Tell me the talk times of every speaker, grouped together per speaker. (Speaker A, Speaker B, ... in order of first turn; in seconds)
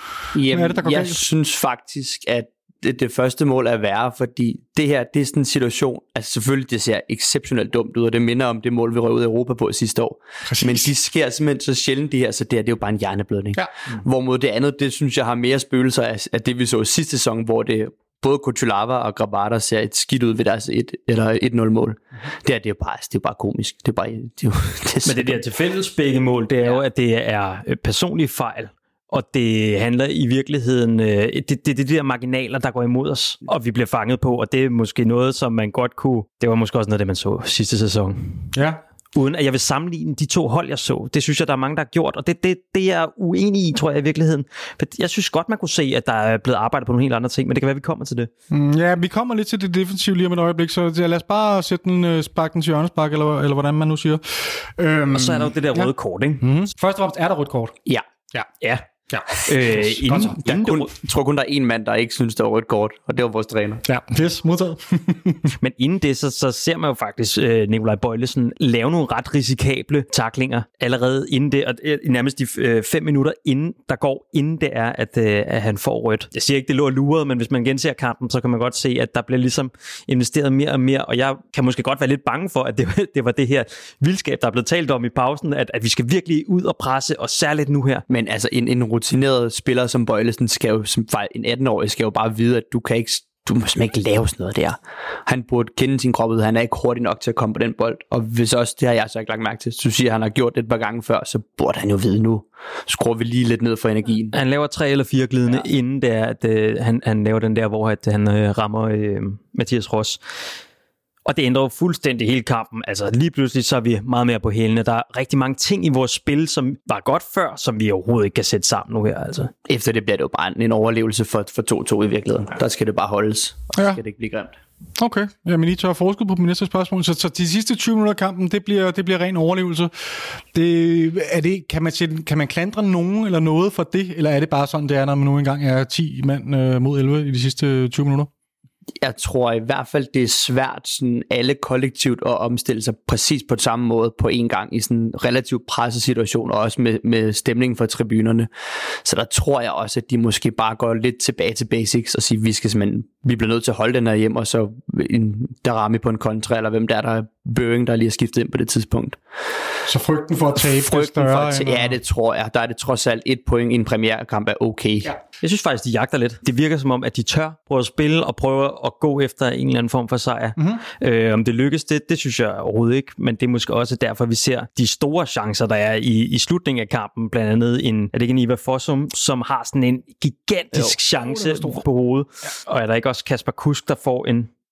Speaker A: 0.3-25.4, 60.4-63.8, 88.1-104.3, 119.7-124.5, 139.0-148.5, 149.0-159.2, 160.6-165.1
Speaker B: 0.5-1.2, 10.4-10.9, 38.5-38.8, 48.5-57.8, 59.7-60.4, 63.8-65.5, 123.7-124.0, 125.0-138.3, 159.8-161.9, 170.6-170.8, 181.1-181.8
Speaker C: 25.1-38.5, 39.1-48.3, 55.1-56.5, 58.6-60.9, 65.6-88.0, 104.3-110.2, 111.2-119.5, 165.4-184.5